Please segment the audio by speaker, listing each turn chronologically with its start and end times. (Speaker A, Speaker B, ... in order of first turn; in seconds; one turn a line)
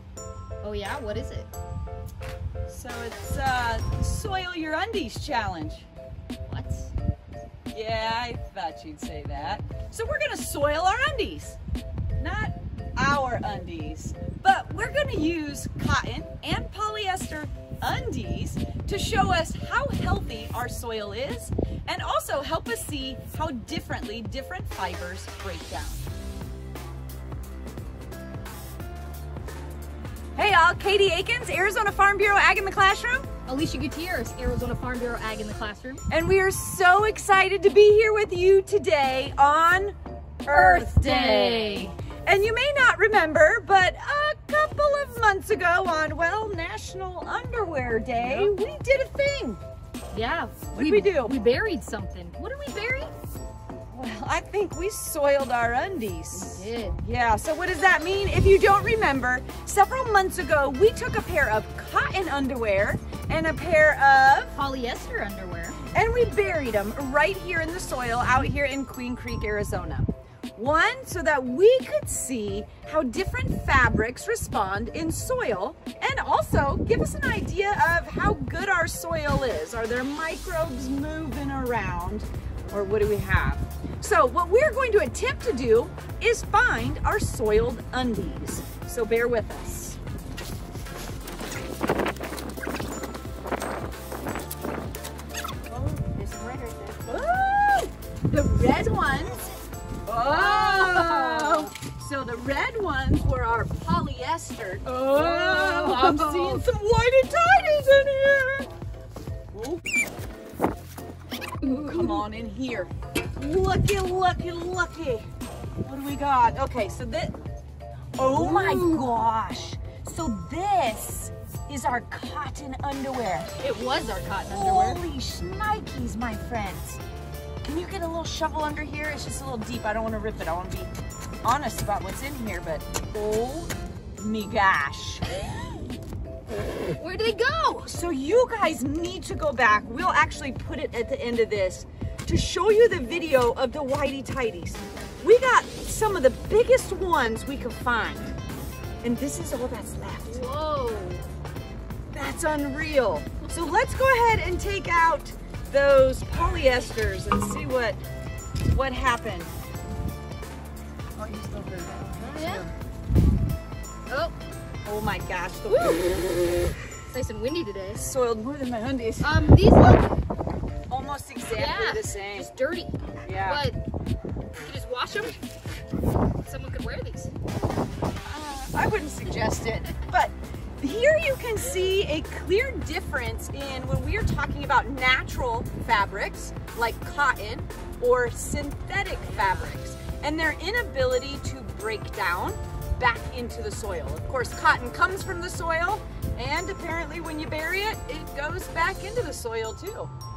Speaker A: 0.6-1.5
Speaker B: 2.6-5.9
Speaker A: 6.5-6.9
Speaker B: 7.7-11.6
Speaker B: 12.2-26.0
Speaker B: 30.4-33.3
Speaker A: 33.5-36.0
Speaker B: 36.1-49.6
Speaker A: 40.5-42.0
Speaker A: 48.1-48.5
Speaker A: 50.1-53.1
Speaker B: 50.7-51.4
Speaker B: 53.9-64.5
Speaker A: 56.3-57.0
Speaker A: 64.5-65.8
Speaker B: 65.9-90.0
Speaker A: 95.9-97.0
Speaker B: 97.0-99.5
Speaker B: 100.0-108.7
Speaker A: 100.2-101.7
Speaker A: 105.0-106.6
Speaker B: 109.5-109.8
Speaker A: 111.6-112.2
Speaker B: 111.6-115.3
Speaker B: 115.8-117.4
Speaker B: 118.2-123.5
Speaker A: 118.3-119.1
Speaker A: 123.6-125.0
Speaker B: 124.4-127.0
Speaker B: 127.6-130.9
Speaker B: 131.4-135.2
Speaker A: 137.0-137.9
Speaker B: 137.8-148.3
Speaker B: 149.0-150.4
Speaker A: 150.3-151.3
Speaker B: 152.1-158.0
Speaker B: 158.7-159.5
Speaker B: 161.2-162.7
Speaker A: 162.1-162.7
Speaker A: 164.1-164.3
Speaker B: 164.8-166.2
Speaker A: 165.7-166.2
Speaker A: 167.1-168.1
Speaker B: 168.0-169.5
Speaker A: 169.2-170.2
Speaker B: 170.9-172.5
Speaker A: 171.5-173.8
Speaker B: 173.2-173.6
Speaker A: 174.6-175.4
Speaker A: 176.4-177.3
Speaker B: 178.2-200.1
Speaker A: 189.3-189.7